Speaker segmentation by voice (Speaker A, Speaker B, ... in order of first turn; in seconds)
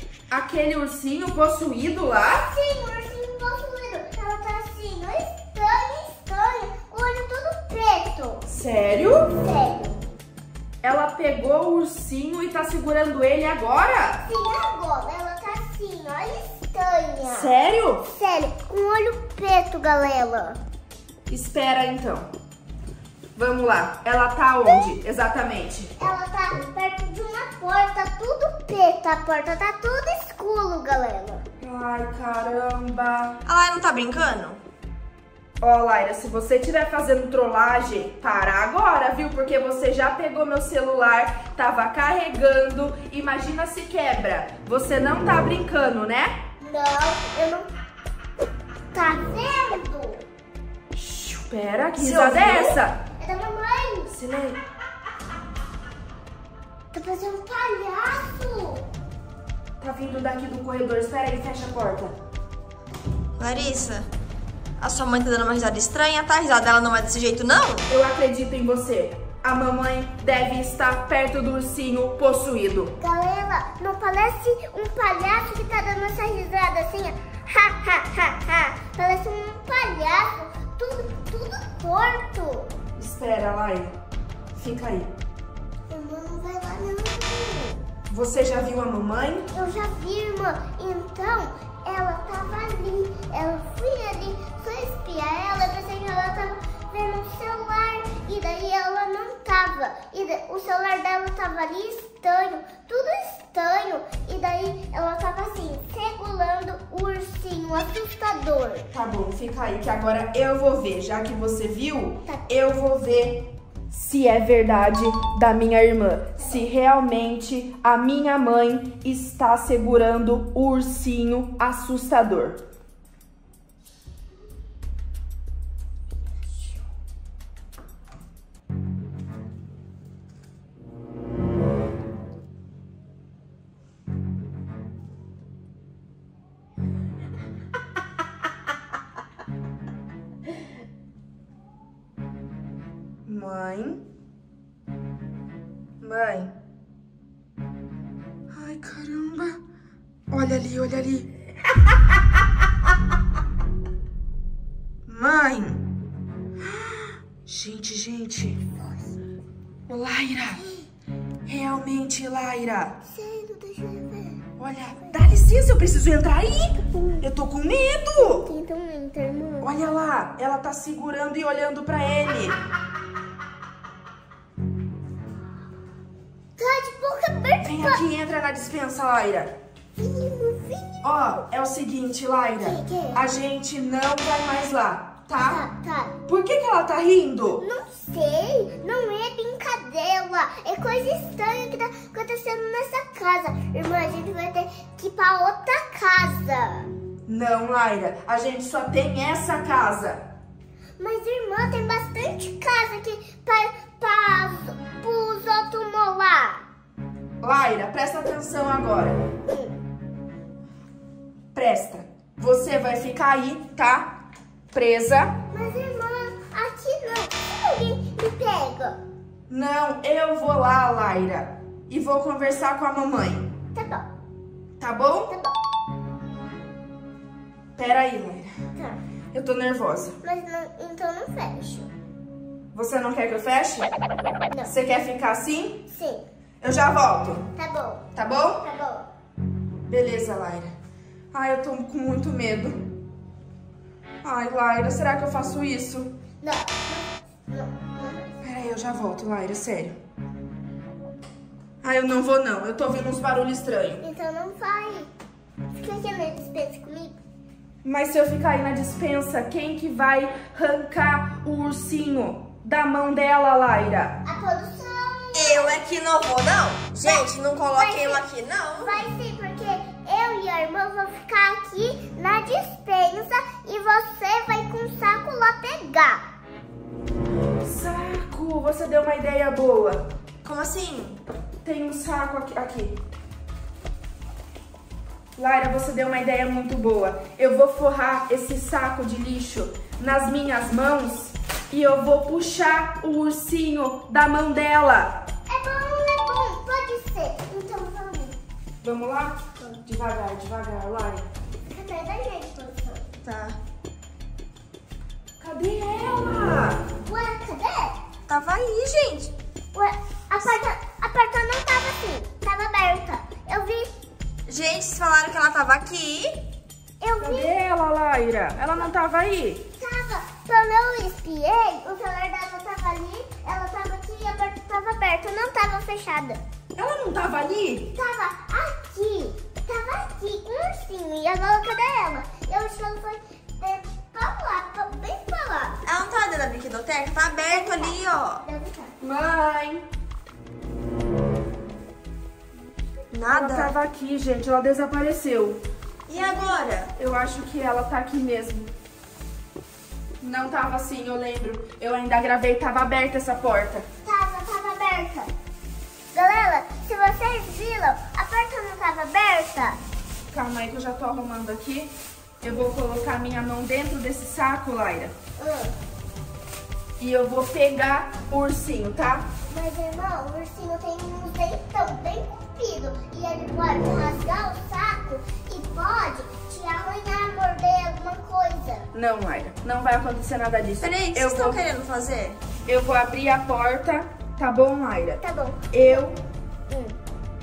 Speaker A: 0.3-2.5, 8.5-9.3, 10.8-14.2, 17.3-18.1, 21.3-22.3, 23.4-25.9, 31.6-33.4, 35.6-46.3, 50.9-53.0, 54.1-54.6, 59.8-62.1, 67.9-72.9, 83.0-83.9, 84.5-85.1, 88.1-89.5, 108.9-122.6, 143.2-144.0, 146.0-146.5, 148.5-149.6, 150.3-151.3, 155.1-155.8, 156.6-158.6, 159.9-160.6, 161.4-163.0, 164.6-168.4, 169.6-172.6, 177.6-179.5, 181.0-185.6, 186.3-187.6, 197.3-200.2, 207.4-209.2, 211.5-214.2, 214.7-215.3, 219.5-223.5, 224.8-225.3, 227.8-228.5, 229.3-230.2, 232.7-233.9, 234.6-235.8, 236.6-237.5, 238.1-238.6, 239.9-240.7, 241.3-242.8, 244.2-246.1, 248.4-249.9, 251.8-254.0, 257.8-264.2, 277.6-280.1, 281.6-283.0, 285.4-295.2, 298.8-301.2, 305.4-306.9, 317.2-319.6, 326.8-327.9, 339.0-339.8, 343.3-345.6, 347.0-348.7, 350.2-353.9, 360.3-365.1, 367.0-369.2, 378.9-381.6, 382.7-386.2
Speaker B: 2.4-8.4, 9.3-10.0, 14.2-17.5, 18.1-20.6, 26.0-31.4, 46.6-47.7, 48.9-50.2, 53.2-54.1, 56.9-58.9, 73.0-82.7, 85.9-87.8, 89.5-108.9, 116.4-116.6, 160.6-160.9, 163.1-164.4, 166.8-167.2, 168.2-169.7, 176.6-178.0, 180.0-181.2, 182.6-183.2, 185.4-186.1, 187.6-196.9, 201.0-206.6, 209.4-209.7, 215.5-219.0, 223.7-224.1, 225.3-225.6, 230.2-231.9, 235.9-236.2, 237.6-238.0, 238.6-239.1, 246.4-248.3, 254.0-255.1, 255.7-257.2, 264.2-265.8, 267.0-268.2, 268.8-276.2, 295.5-298.4, 301.7-303.1, 307.0-308.0, 309.7-314.0, 317.0-317.5, 319.8-326.4, 327.9-335.8, 337.5-338.9, 346.1-346.5, 354.0-355.3, 356.1-359.8, 365.4-365.7, 369.5-378.9, 385.2-386.0, 386.7-387.0
Speaker C: 33.4-34.6, 52.0-52.8, 63.4-64.1, 64.8-67.9, 265.3-269.0, 280.4-281.2, 303.2-303.6, 308.3-309.3, 314.5-316.4, 335.8-338.4, 343.1-343.7, 346.1-346.9, 380.8-382.4